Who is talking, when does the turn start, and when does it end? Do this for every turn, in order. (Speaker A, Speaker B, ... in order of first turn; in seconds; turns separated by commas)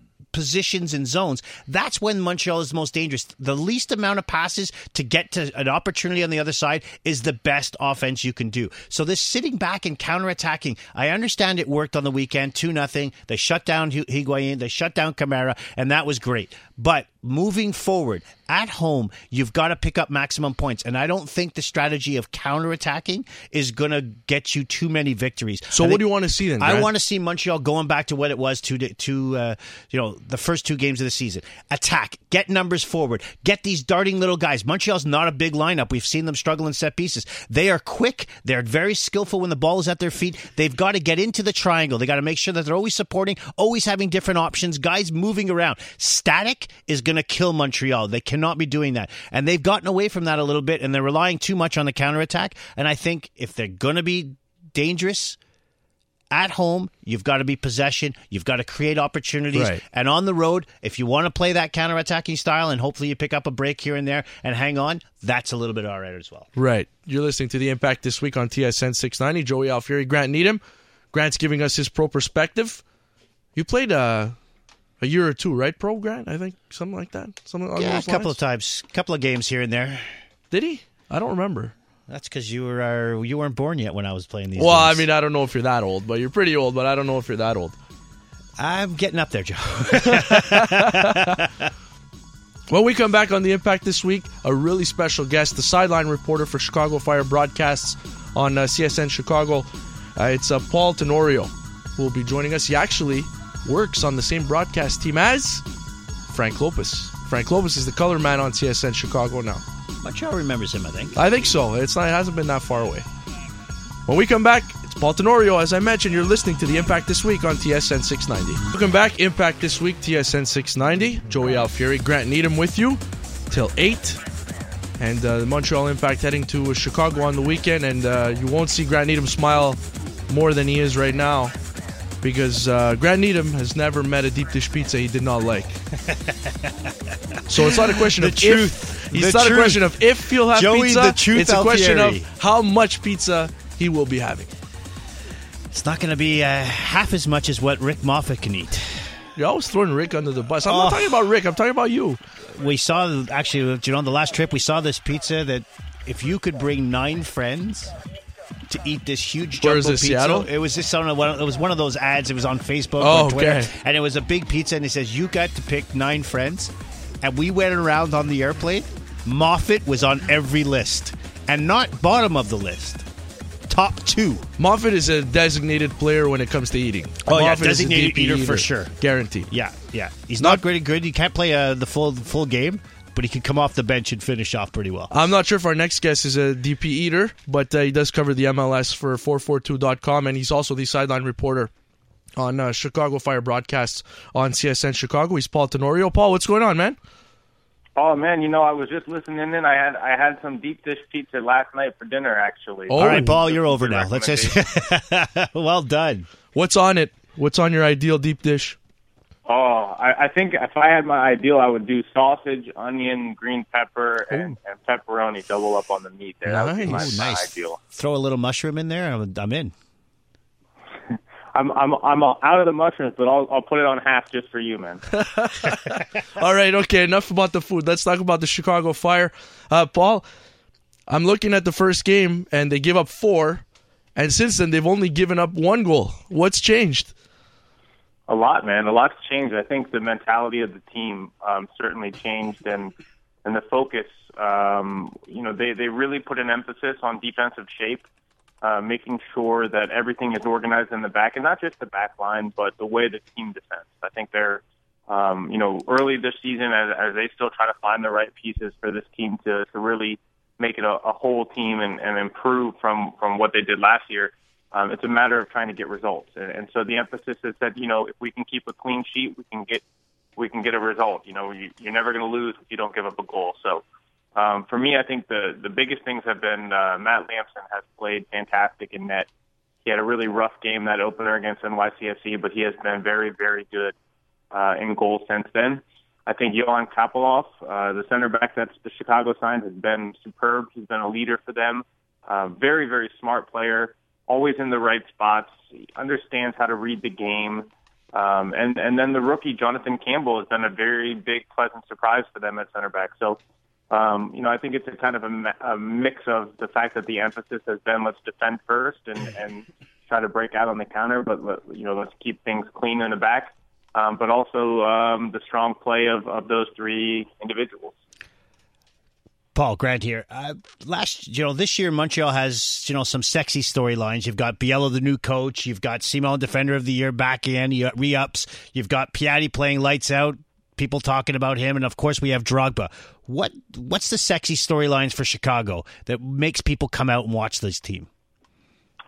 Speaker A: 0.3-55.4, Speaker B: 25.7-26.9, Speaker A: 56.3-66.5, Speaker B: 59.5-59.8, Speaker B: 66.5-70.6, Speaker B: 71.1-72.8, Speaker B: 73.5-74.4, Speaker B: 75.0-78.4, Speaker A: 77.8-80.2, Speaker B: 80.5-81.7, Speaker A: 82.1-85.1, Speaker B: 84.6-87.8, Speaker A: 88.6-91.7, Speaker B: 89.9-91.3, Speaker B: 92.7-105.6, Speaker B: 106.3-109.6, Speaker A: 110.0-111.2, Speaker B: 111.2-113.0, Speaker B: 114.1-124.2, Speaker B: 125.0-131.5, Speaker B: 132.2-135.8, Speaker A: 136.0-136.7, Speaker B: 137.5-144.5, Speaker A: 137.6-142.3, Speaker A: 145.7-149.1, Speaker B: 149.3-152.2, Speaker A: 150.7-151.3, Speaker A: 152.4-157.9, Speaker A: 158.7-173.1, Speaker B: 159.6-160.5, Speaker B: 163.0-163.7, Speaker A: 173.7-174.4, Speaker B: 174.6-179.5, Speaker A: 177.2-178.9, Speaker A: 179.5-185.1, Speaker B: 185.1-191.7, Speaker B: 192.4-197.0, Speaker C: 197.9-204.5, Speaker B: 202.9-203.3, Speaker A: 203.0-206.3, Speaker B: 206.5-208.8, Speaker C: 209.4-217.8, Speaker B: 216.4-217.3, Speaker A: 216.8-219.7, Speaker C: 221.5-225.0, Speaker B: 225.2-230.2, Speaker B: 231.1-237.1, Speaker C: 238.3-242.9, Speaker C: 243.4-248.0, Speaker C: 248.6-269.8, Speaker C: 270.4-273.8, Speaker C: 274.3-279.3, Speaker C: 279.8-283.9, Speaker C: 284.5-303.4, Speaker C: 303.9-317.9, Speaker A: 319.5-338.1